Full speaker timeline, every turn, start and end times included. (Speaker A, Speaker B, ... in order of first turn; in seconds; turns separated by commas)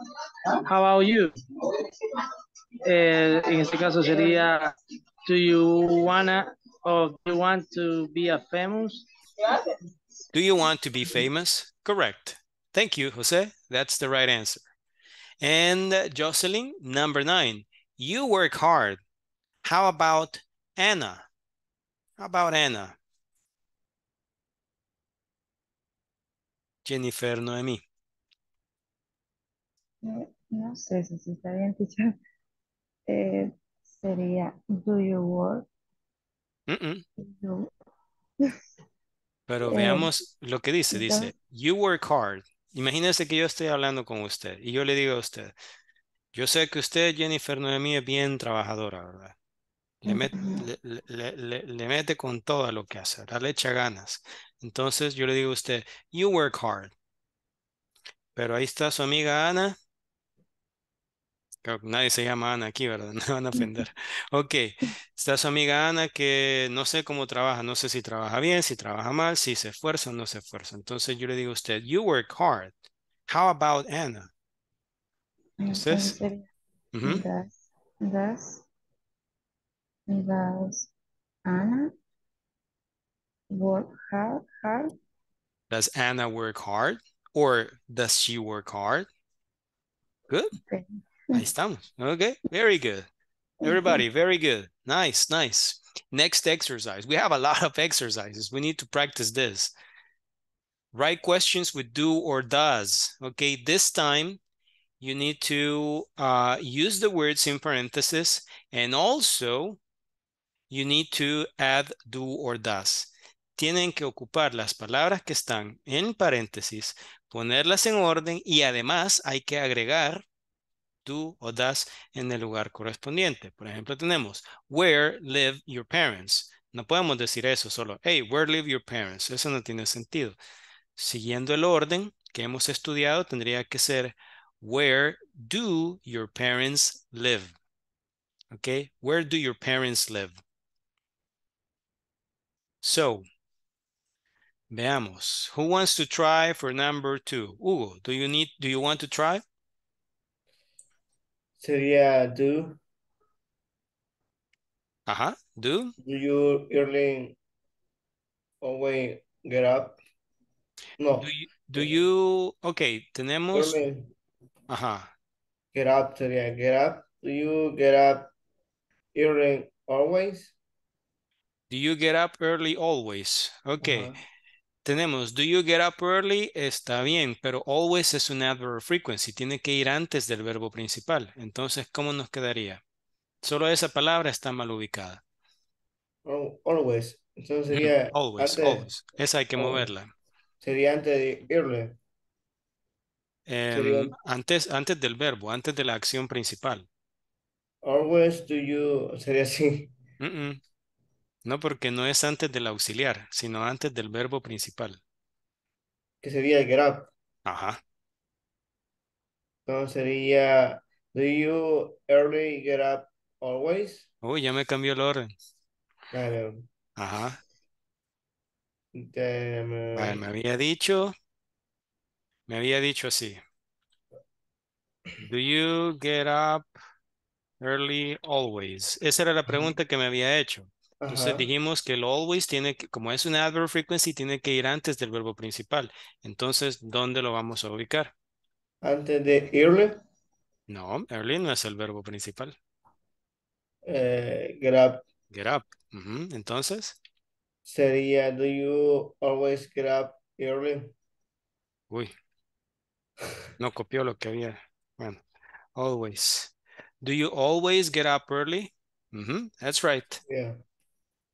Speaker A: 0.6-1.3, Speaker A: 2.9-4.7, Speaker A: 5.2-9.1, Speaker B: 10.3-14.7, Speaker B: 15.4-19.0, Speaker B: 19.6-21.2, Speaker B: 22.2-23.0, Speaker B: 26.9-27.8, Speaker C: 30.0-32.1, Speaker C: 33.1-35.7, Speaker B: 36.7-37.0, Speaker C: 37.2-37.7, Speaker B: 39.5-45.5, Speaker C: 39.7-40.1, Speaker C: 40.9-41.3, Speaker B: 46.3-49.4, Speaker B: 50.0-56.9, Speaker C: 50.1-50.6, Speaker B: 58.4-59.8, Speaker B: 61.6-72.8, Speaker C: 63.6-63.8, Speaker B: 73.3-74.3, Speaker C: 75.6-76.5, Speaker B: 75.7-76.2, Speaker B: 76.9-77.2, Speaker C: 77.0-78.7, Speaker C: 80.1-80.9, Speaker C: 81.5-81.9, Speaker C: 83.5-84.9, Speaker B: 85.7-89.1, Speaker C: 90.7-91.4, Speaker B: 91.3-93.1, Speaker C: 93.6-94.0, Speaker B: 93.6-99.7, Speaker B: 100.9-104.4, Speaker B: 105.0-109.8, Speaker B: 110.7-120.2, Speaker B: 121.0-130.4, Speaker B: 131.0-137.5, Speaker B: 138.5-140.4, Speaker B: 142.8-143.2, Speaker B: 144.7-149.4, Speaker D: 151.6-152.8, Speaker B: 155.1-155.9, Speaker D: 156.0-157.4, Speaker D: 158.6-160.0, Speaker D: 161.0-162.0, Speaker B: 161.2-163.8, Speaker D: 163.5-164.1, Speaker B: 164.7-165.1, Speaker D: 165.7-168.3, Speaker D: 169.2-170.5, Speaker B: 171.7-174.1, Speaker D: 173.8-174.2, Speaker B: 174.8-182.8, Speaker B: 183.4-185.2, Speaker D: 186.3-188.9, Speaker B: 187.7-190.1, Speaker D: 189.6-189.9, Speaker D: 190.6-192.0, Speaker B: 193.5-196.9, Speaker D: 193.7-194.1, Speaker D: 197.8-199.9, Speaker B: 200.2-200.6, Speaker B: 201.4-205.0, Speaker D: 206.2-207.1, Speaker B: 207.5-207.8, Speaker D: 209.7-214.1, Speaker B: 214.2-215.3, Speaker D: 216.1-216.7, Speaker B: 217.0-217.4, Speaker D: 218.9-220.2, Speaker B: 219.9-221.1, Speaker B: 222.5-223.4, Speaker B: 225.2-226.7, Speaker B: 227.6-238.1, Speaker D: 231.0-231.5, Speaker D: 238.8-240.0, Speaker B: 240.7-242.6, Speaker D: 243.9-245.1, Speaker B: 245.3-247.0, Speaker D: 247.7-250.9, Speaker B: 253.6-255.2, Speaker B: 255.8-260.2, Speaker D: 260.3-260.6